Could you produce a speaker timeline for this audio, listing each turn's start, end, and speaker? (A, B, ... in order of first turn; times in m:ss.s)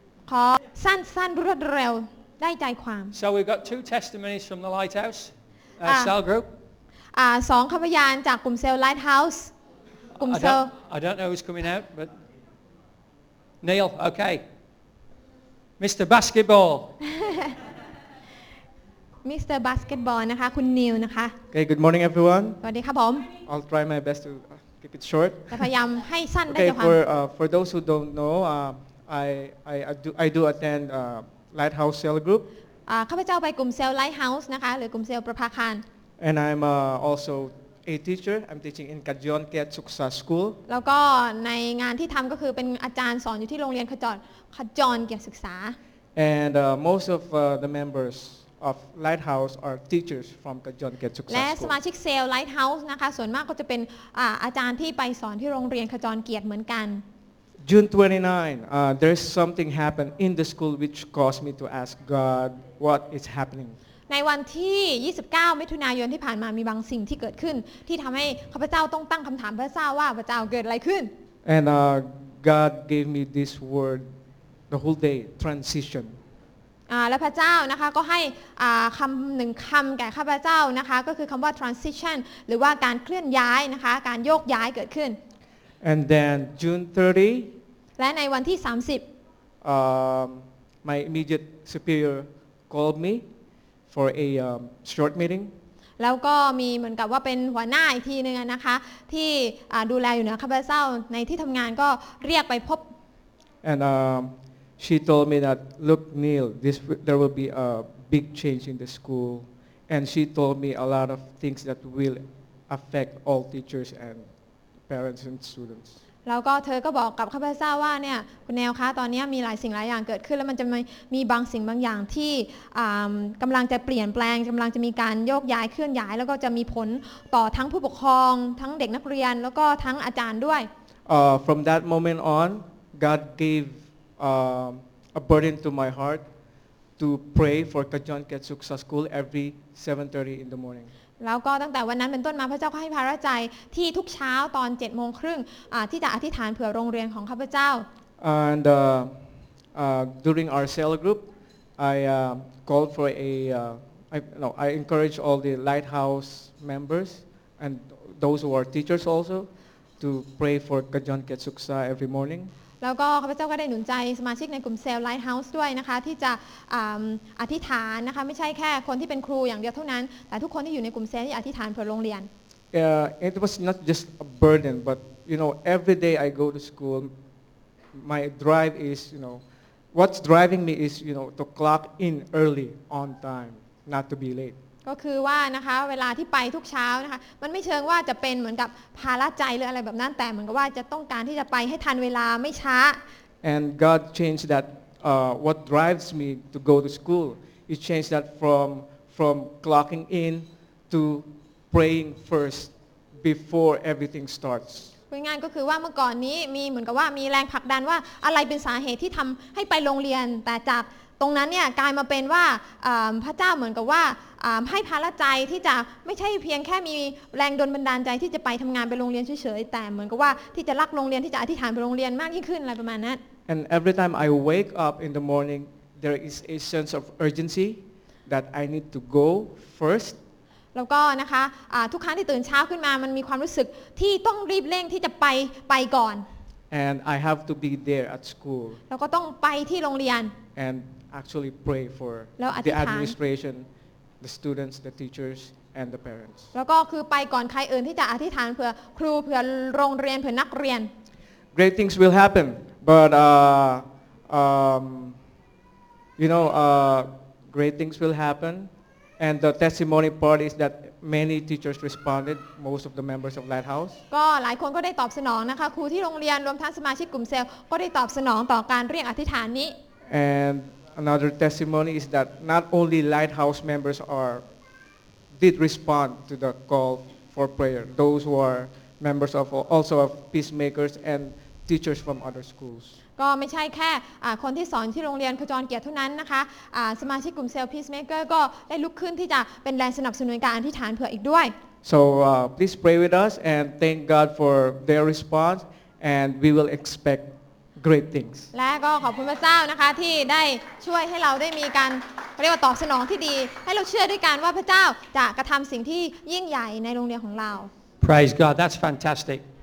0:00.3-0:03.2 A
0:03.1-0:06.5 B
0:05.9-0:06.2 A
0:07.2-0:09.5 A
0:10.2-0:10.7 A
0:10.2-0:12.1 B
0:13.6-0:14.4 B
0:15.8-0:16.9 B
0:17.2-0:17.5 A
0:19.2-0:21.4 A
0:21.5-0:22.6 C
0:22.6-0:23.3 A
0:23.4-0:25.7 C
0:25.5-0:27.0 A
0:26.5-0:32.5 C
0:32.9-0:35.8 A
0:36.2-0:40.6 C
0:40.7-0:45.8 A
0:46.2-0:51.8 C
0:51.3-0:57.0 A
0:57.6-1:03.8 C
1:04.1-1:11.1 A
1:11.4-1:14.1 C
1:14.7-1:16.2 C
1:16.9-1:25.2 A
1:25.8-1:27.6 C
1:28.0-1:29.0 A
1:29.6-1:33.3 C
1:33.9-1:35.5 C
1:36.0-1:42.9 A
1:43.6-1:54.3 C
1:54.9-1:56.0 C
1:56.3-2:10.7 A
2:11.1-2:16.2 C
2:17.0-2:20.9 C
2:21.2-2:27.9 A
2:28.2-2:29.2 C
2:29.7-2:39.5 C
2:40.0-2:42.5 C
2:42.8-2:52.3 A
2:52.7-2:57.1 C
2:57.9-2:59.4 C
2:59.9-3:04.6 C
3:04.9-3:13.0 A
3:13.4-3:24.9 C
3:25.1-3:43.2 A
3:43.5-3:50.2 C
3:50.8-3:56.2 A
3:56.7-3:58.8 C
3:58.9-4:00.3 A
4:00.6-4:03.7 C
4:02.4-4:03.2 A
4:04.2-4:06.4 C
4:06.5-4:10.9 A
4:11.5-4:15.2 C
4:16.2-4:24.0 C
4:24.1-4:29.8 A
4:30.1-4:34.4 C
4:35.3-4:43.0 C
4:43.2-4:51.5 A
4:51.8-4:58.5 C
4:58.5-5:07.7 A
5:08.0-5:09.4 B